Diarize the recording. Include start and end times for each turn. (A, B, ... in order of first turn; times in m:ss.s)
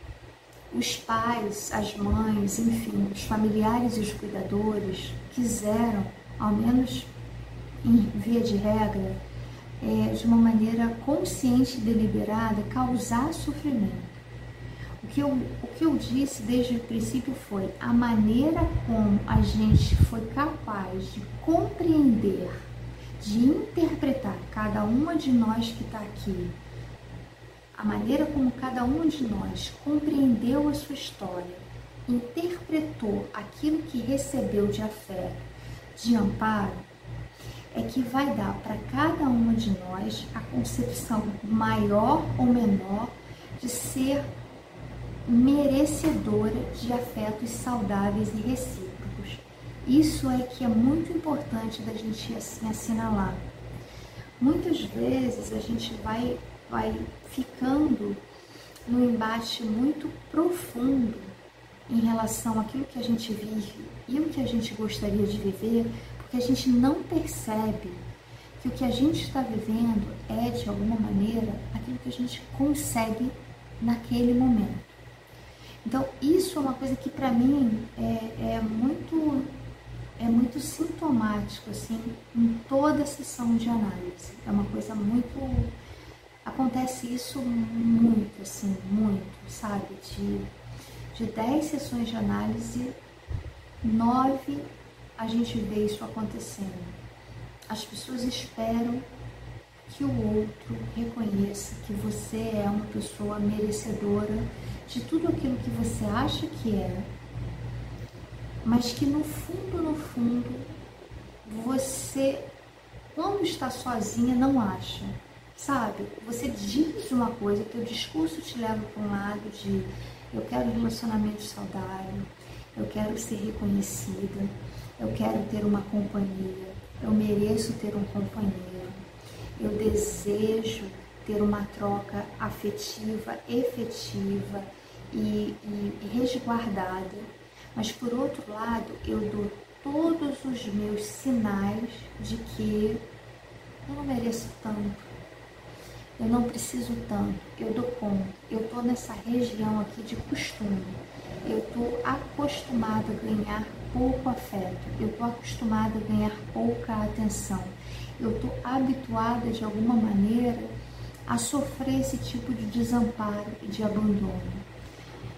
0:00.7-0:07.1 A
0:07.8-0:09.2 A
0:09.8-0:14.1 A
0:15.0-0:22.7 A
0:23.2-0:26.6 A
0:27.7-0:35.4 A
0:36.0-0:36.8 A
0:37.7-0:44.2 A
0:45.2-0:53.4 A
0:54.4-0:58.2 A
0:58.9-1:01.3 A
1:01.9-1:08.0 A
1:08.6-1:15.0 A
1:15.8-1:19.5 A
1:20.2-1:25.7 A
1:26.4-1:30.5 A
1:31.1-1:33.0 A
1:33.8-1:34.6 A
1:35.2-1:37.0 A
1:37.7-1:39.0 A
1:39.9-1:47.1 A
1:48.6-1:50.7 A
1:51.4-1:52.5 A
1:53.1-2:09.0 A
2:09.6-2:23.0 A
2:23.8-2:25.1 A
2:26.2-2:40.7 A
2:41.3-2:44.6 A